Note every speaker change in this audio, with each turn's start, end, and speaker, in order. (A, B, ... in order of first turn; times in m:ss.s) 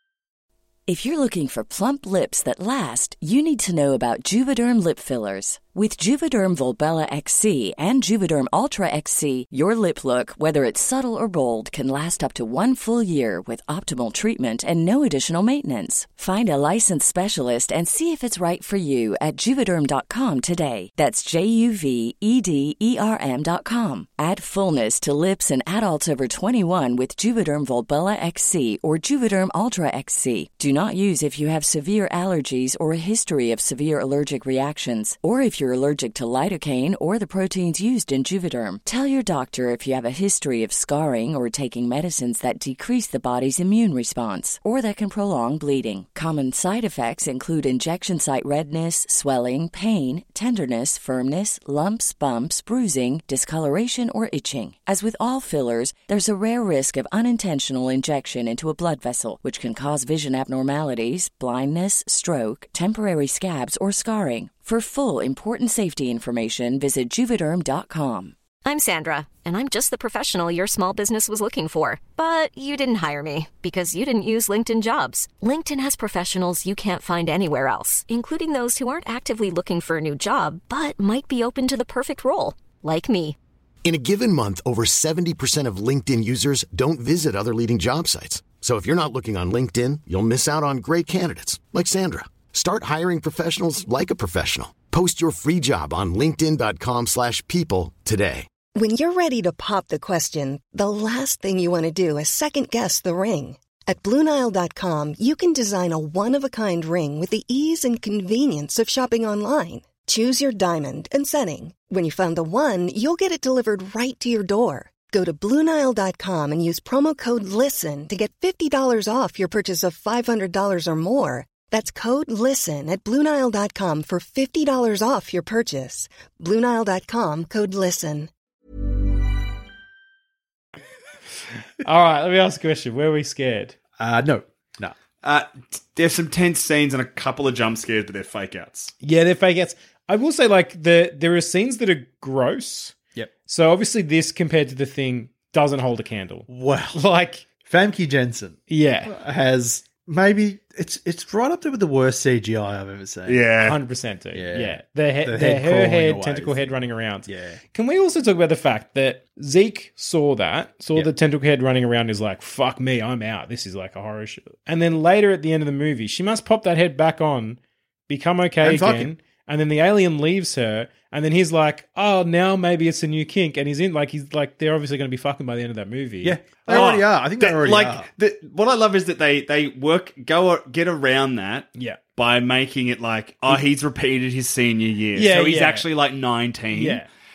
0:00.9-1:08.4 A
1:08.6-1:23.4 B
1:23.8-1:38.5 C
1:38.8-2:08.3 D
2:11.8-2:13.8 E
2:14.0-2:14.9 F
2:15.2-2:18.9 G
2:19.0-2:23.0 E
2:23.5-2:27.4 E
2:26.5-2:27.0 F
2:27.6-2:33.4 F
2:28.7-2:29.1 E
2:33.3-2:33.8 G
2:33.6-2:56.8 E
2:34.3-2:37.6 F
2:48.6-2:49.1 F
2:56.2-2:58.1 F
2:56.7-3:07.0 G
3:05.2-3:05.9 E
3:06.7-3:07.1 E